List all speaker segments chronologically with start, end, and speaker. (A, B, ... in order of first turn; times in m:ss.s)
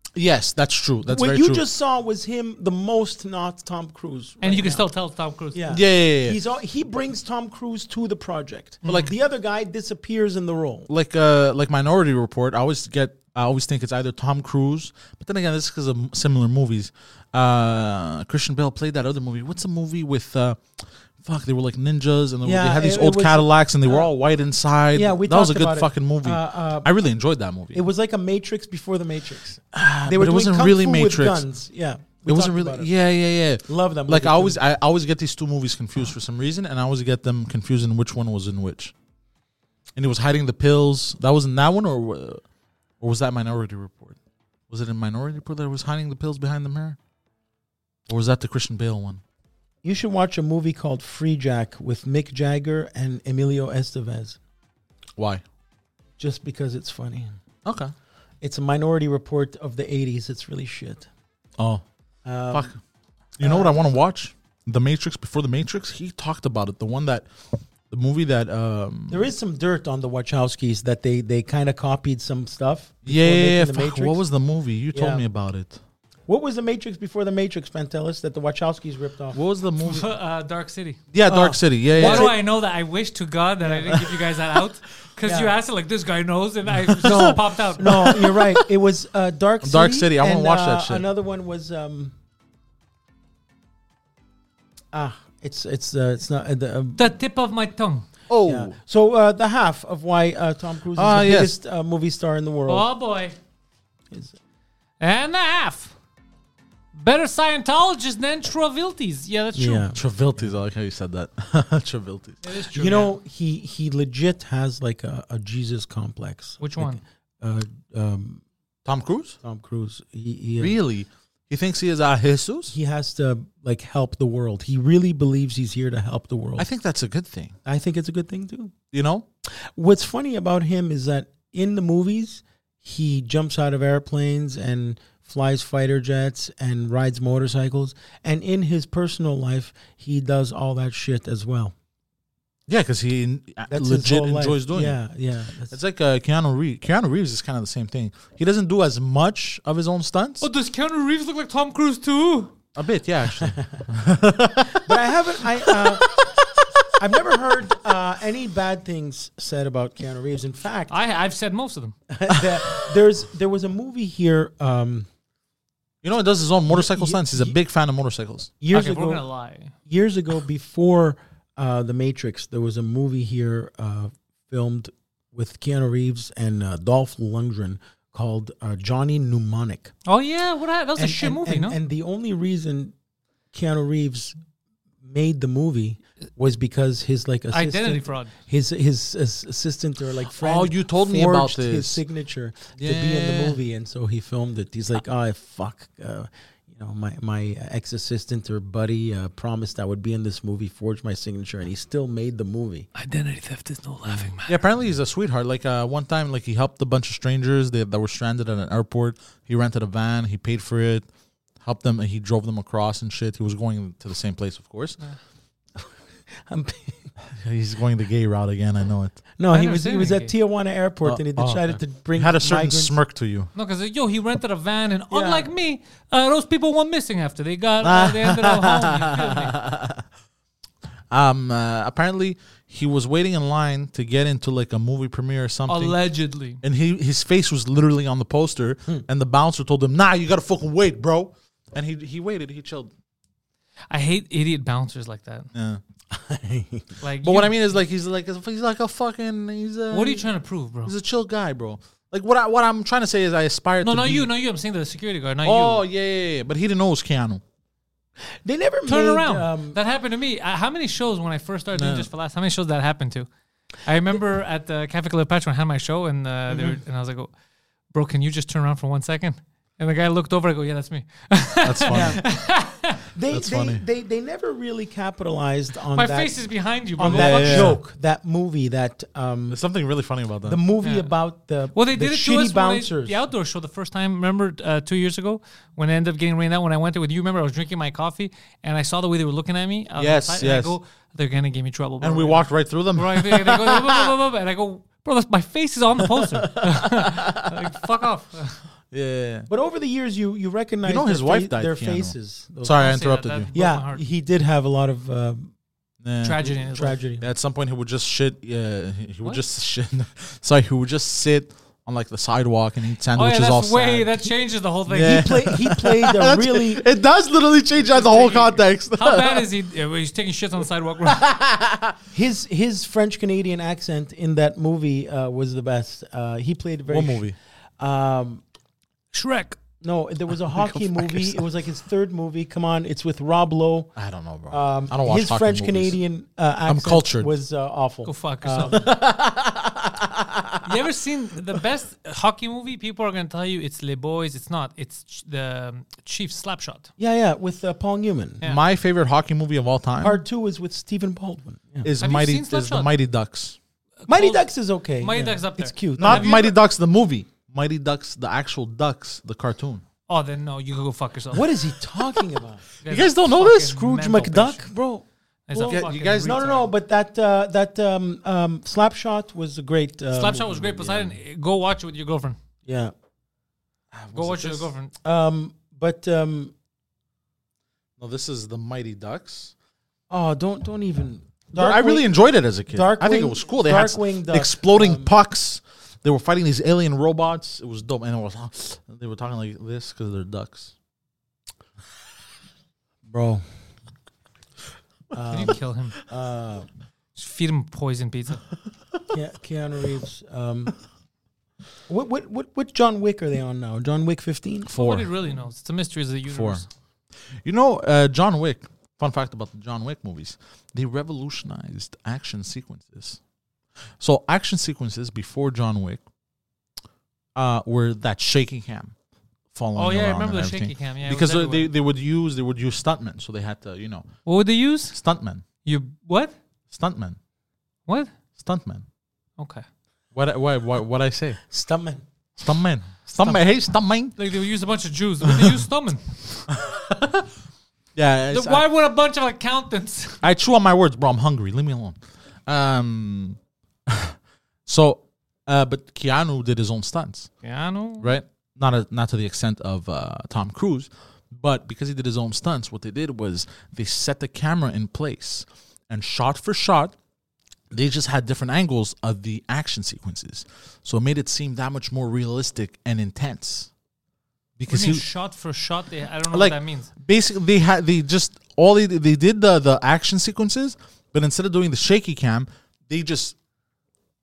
0:00.1-0:01.6 A
0:01.1-0:04.9 B
0:04.4-0:05.6 C
0:05.5-0:10.9 B
0:05.7-0:06.4 A
0:08.8-0:09.1 C
0:10.9-0:27.8 A
0:22.4-0:24.1 B
0:24.9-0:26.9 B
0:27.7-0:32.9 B
0:29.7-0:31.4 A
0:32.3-0:38.9 A
0:33.6-0:34.6 B
0:40.0-0:42.4 A
0:43.0-0:44.2 A
0:44.7-0:47.0 A
0:48.1-0:49.2 A
0:49.8-0:54.4 B
0:55.2-0:55.4 A
0:56.2-0:57.4 B
0:57.6-0:57.9 A
0:58.4-1:01.1 B
1:01.6-1:01.8 A
1:02.2-1:02.7 B
1:02.5-1:02.8 A
1:03.4-1:07.3 A
1:03.4-1:03.8 B
1:07.9-1:09.3 A
1:09.1-1:14.2 B
1:13.0-1:15.8 A
1:14.9-1:15.2 B
1:16.3-1:19.4 B
1:19.3-1:20.1 A
1:19.8-1:21.0 C
1:21.1-1:22.3 A
1:21.2-1:22.4 B
1:22.0-1:28.2 C
1:23.6-1:24.1 B
1:25.2-1:25.5 B
1:27.0-1:28.6 A
1:27.0-1:32.1 B
1:29.6-1:31.1 A
1:34.9-1:37.2 B
1:37.0-1:38.1 C
1:38.3-1:38.8 A
1:38.4-1:42.9 B
1:40.9-1:41.5 A
1:42.7-1:43.4 C
1:45.0-1:45.9 C
1:47.0-1:49.8 C
1:49.5-1:50.0 B
1:49.9-1:52.4 A
1:52.4-1:53.1 C
1:52.7-1:58.4 B
1:56.6-1:57.0 C
1:58.8-1:59.4 A
1:59.4-2:00.7 B
2:00.6-2:02.7 A
2:02.7-2:06.7 B
2:06.6-2:07.6 A
2:07.6-2:08.7 B
2:08.9-2:09.2 A
2:09.8-2:21.7 B
2:22.7-2:25.0 A
2:23.7-2:25.8 B
2:25.7-2:30.4 A
2:30.4-2:32.5 C
2:32.7-2:35.0 A
2:33.4-2:33.8 B
2:34.7-2:36.2 B
2:35.6-2:36.3 A
2:36.9-2:41.0 B
2:40.9-2:41.9 C
2:42.1-2:45.1 B
2:42.3-2:42.9 A
2:46.0-2:48.5 A
2:46.7-2:47.6 B
2:48.6-2:49.2 B
2:48.7-2:49.7 C
2:49.8-2:59.9 B
3:00.1-3:01.8 C
3:01.0-3:02.9 B
3:03.5-3:04.4 B
3:05.0-3:22.9 B
3:07.5-3:08.3 C
3:10.3-3:12.0 A
3:12.8-3:13.6 A
3:22.9-3:24.5 C
3:24.4-3:31.1 A
3:31.6-3:35.0 A
3:35.8-3:37.1 B
3:37.3-3:39.2 A
3:39.4-3:43.0 B
3:39.5-3:40.3 C
3:41.0-3:43.5 A
3:43.5-3:49.5 C
3:45.1-3:45.5 B
3:47.8-3:50.0 A
3:51.1-3:56.0 A
3:55.7-3:56.6 C
3:56.6-4:02.9 A
4:03.9-4:05.5 C
4:05.5-4:05.8 A
4:06.1-4:06.9 B
4:07.0-4:07.5 C
4:07.2-4:10.3 A
4:09.9-4:10.9 C
4:10.8-4:14.3 A
4:13.8-4:15.8 C
4:15.4-4:17.4 A
4:18.4-4:19.8 B
4:18.8-4:23.3 C
4:21.7-4:22.1 A
4:23.8-4:27.3 C
4:26.5-4:26.8 B
4:27.9-4:33.0 C
4:31.6-4:32.2 A
4:31.9-4:32.2 B
4:33.1-4:39.6 B
4:33.3-4:33.8 A
4:35.9-4:37.8 C
4:37.0-4:37.8 A
4:39.5-4:40.6 A
4:40.4-4:43.2 B
4:40.8-4:41.1 C
4:41.7-4:58.7 C
4:50.0-4:50.8 A
4:52.0-4:54.1 A
4:56.5-4:57.7 A
4:58.9-4:59.5 A
4:59.5-5:03.0 B
5:00.8-5:03.5 A
5:02.8-5:04.0 C
5:03.5-5:05.5 B
5:06.0-5:06.5 A
5:06.2-5:07.0 C
5:06.4-5:07.3 B
5:07.2-5:14.1 A
5:13.1-5:15.3 C
5:14.9-5:19.5 A
5:14.9-5:16.8 B
5:17.8-5:21.2 C
5:21.0-5:22.0 A
5:22.1-5:27.3 B
5:26.9-5:27.4 A
5:27.8-5:28.4 B
5:29.1-5:29.6 C
5:29.8-5:33.9 B
5:34.0-5:36.0 A
5:34.5-5:38.9 B
5:36.6-5:37.3 A
5:38.0-5:38.8 C
5:38.7-5:40.6 A
5:40.6-5:46.9 C
5:47.0-5:48.4 B
5:48.4-5:50.2 A
5:50.0-5:51.9 B
5:51.8-5:53.6 A
5:52.0-5:52.9 C
5:54.0-5:54.5 C
5:54.1-5:56.4 B
5:55.0-5:56.6 C
5:56.0-5:59.8 A
6:00.1-6:01.5 C
6:01.3-6:02.6 B
6:02.8-6:04.7 C
6:02.9-6:03.8 A
6:03.6-6:05.0 B
6:05.5-6:06.7 C
6:05.6-6:06.5 A
6:05.6-6:11.1 B
6:10.1-6:12.4 C
6:12.6-6:12.9 B
6:13.9-6:14.7 A
6:14.1-6:14.9 C
6:15.0-6:16.5 B
6:18.0-6:19.5 A
6:20.1-6:22.1 B
6:21.5-6:30.7 A
6:22.6-6:25.1 B
6:33.1-6:33.4 B
6:35.1-6:36.7 B
6:35.3-6:36.0 C
6:37.2-6:38.4 C
6:39.1-6:40.8 B
6:41.9-6:44.7 B
6:44.7-6:45.1 A
6:44.8-6:46.7 C
6:46.3-6:46.6 A
6:47.4-6:53.2 A
6:54.0-6:56.0 A
6:57.3-6:58.9 A
6:59.5-7:04.1 A
6:59.7-7:01.7 C
7:04.2-7:05.0 C
7:04.9-7:05.4 A
7:05.6-7:06.3 C
7:06.7-7:07.2 A
7:07.9-7:08.1 C
7:08.4-7:08.8 A
7:09.4-7:09.6 C
7:10.1-7:11.4 A
7:11.5-7:12.0 B
7:12.4-7:14.2 A
7:14.2-7:16.5 C
7:15.2-7:15.5 A
7:16.5-7:17.3 A
7:17.9-7:18.6 A
7:18.3-7:20.2 C
7:20.2-7:27.3 A
7:27.4-7:28.1 C
7:28.0-7:36.9 A
7:37.7-7:43.7 A
7:44.6-7:45.0 A
7:44.7-7:46.9 C
7:46.3-7:53.4 A